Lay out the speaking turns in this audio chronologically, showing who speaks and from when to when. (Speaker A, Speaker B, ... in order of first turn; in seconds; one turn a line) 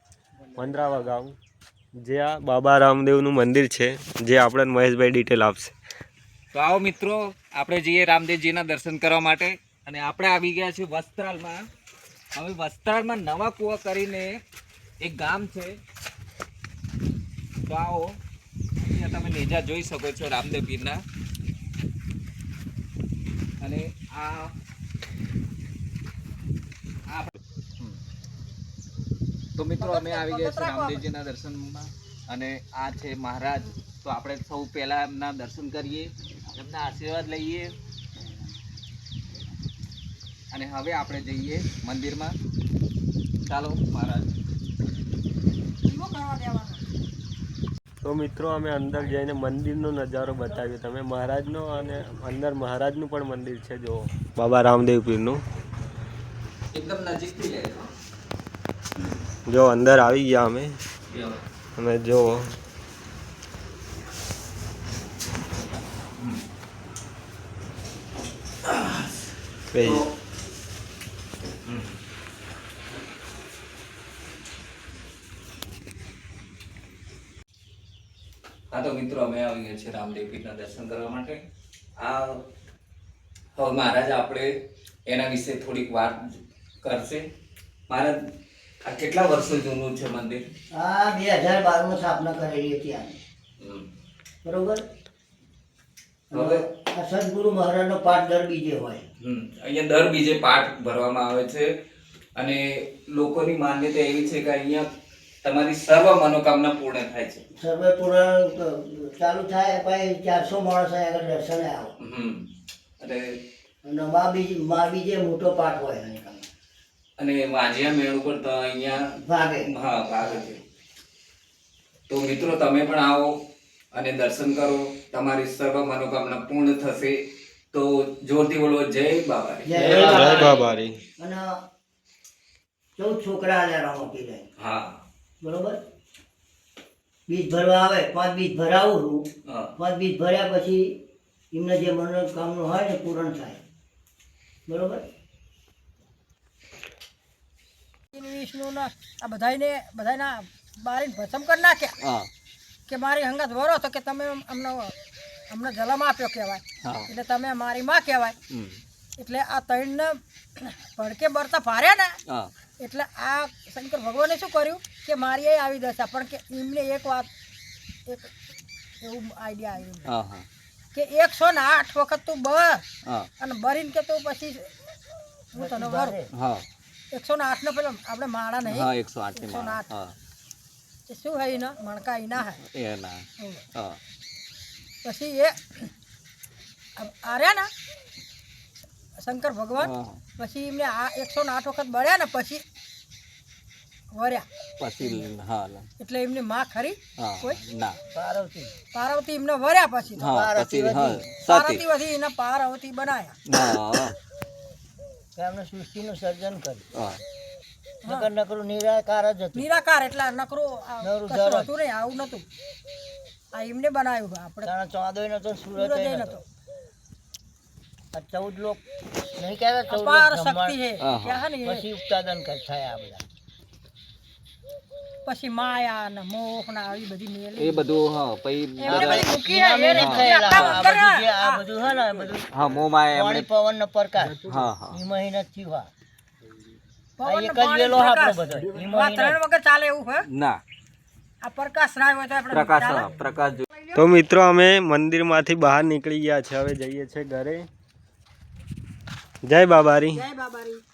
Speaker A: 0.6-1.3
Speaker A: 2.0-5.7
Speaker B: 6.5-11.6
Speaker B: 12.3-14.3
Speaker B: 15.0-15.8
Speaker B: 17.7-18.2
Speaker B: 18.8-21.0
Speaker B: 23.6-24.5
Speaker B: 27.1-28.0
Speaker B: 29.6-37.7
Speaker C: 29.8-31.0
Speaker B: 40.5-42.3
Speaker B: 43.5-44.3
Speaker C: 45.8-46.8
Speaker A: 48.0-55.4
Speaker B: 56.7-57.9
Speaker A: 59.5-60.7
Speaker B: 61.1-61.4
Speaker A: 61.8-62.4
Speaker B: 68.7-69.0
Speaker A: 69.7-70.0
Speaker B: 69.8-70.1
Speaker B: 71.7-71.9
Speaker B: 78.7-81.4
Speaker B: 82.0-82.4
Speaker B: 83.6-84.5
Speaker B: 85.1-87.2
Speaker B: 87.9-88.2
Speaker B: 88.8-90.4
Speaker D: 90.7-93.2
Speaker B: 93.6-93.9
Speaker D: 94.4-94.8
Speaker D: 96.3-99.0
Speaker B: 96.3-96.6
Speaker B: 99.2-101.8
Speaker B: 102.4-104.9
Speaker B: 105.4-107.5
Speaker D: 107.6-111.9
Speaker B: 112.0-112.5
Speaker B: 113.0-113.3
Speaker D: 113.8-116.5
Speaker B: 117.2-119.1
Speaker D: 119.2-119.7
Speaker B: 119.6-120.6
Speaker B: 122.1-123.4
Speaker B: 123.9-127.2
Speaker B: 127.7-130.6
Speaker D: 129.6-131.5
Speaker A: 129.8-131.0
Speaker D: 132.9-134.5
Speaker B: 134.6-135.0
Speaker D: 135.4-135.8
Speaker D: 137.3-139.2
Speaker B: 139.4-139.7
Speaker D: 139.8-140.8
Speaker D: 141.5-143.6
Speaker D: 144.7-145.0
Speaker C: 148.1-151.9
Speaker B: 152.0-152.3
Speaker C: 152.9-154.9
Speaker C: 155.5-158.3
Speaker B: 156.8-157.1
Speaker B: 158.5-158.8
Speaker C: 159.2-162.2
Speaker C: 162.8-167.3
Speaker C: 169.0-170.1
Speaker B: 170.1-170.4
Speaker C: 170.9-172.8
Speaker C: 173.4-174.7
Speaker C: 175.5-176.2
Speaker D: 175.5-176.3
Speaker B: 176.3-176.6
Speaker C: 177.1-179.9
Speaker B: 178.6-180.1
Speaker C: 181.1-182.6
Speaker B: 182.4-184.0
Speaker C: 185.0-185.9
Speaker C: 187.0-187.7
Speaker C: 189.2-192.6
Speaker B: 189.8-190.2
Speaker C: 194.1-194.4
Speaker B: 194.8-195.9
Speaker C: 196.0-197.6
Speaker B: 197.2-198.0
Speaker D: 198.1-198.7
Speaker C: 198.9-200.3
Speaker D: 200.2-201.2
Speaker B: 200.2-201.8
Speaker C: 201.4-203.4
Speaker B: 203.5-204.2
Speaker D: 205.3-206.8
Speaker B: 206.9-207.2
Speaker D: 208.0-209.6
Speaker C: 209.5-212.4
Speaker D: 211.0-211.7
Speaker C: 213.5-214.7
Speaker D: 214.6-216.4
Speaker C: 215.8-216.4
Speaker D: 218.1-218.8
Speaker D: 219.3-220.8
Speaker C: 219.9-221.8
Speaker B: 221.0-221.4
Speaker D: 221.6-223.2
Speaker C: 225.2-227.8
Speaker B: 227.6-229.3
Speaker C: 228.8-231.6
Speaker D: 228.8-235.9
Speaker B: 229.9-230.8
Speaker B: 232.5-233.5
Speaker B: 234.5-235.0
Speaker C: 237.2-240.3
Speaker D: 237.2-239.4
Speaker B: 240.3-240.6
Speaker C: 241.4-244.0
Speaker B: 242.5-243.6
Speaker A: 243.9-247.6
Speaker A: 249.4-250.2
Speaker C: 250.1-250.8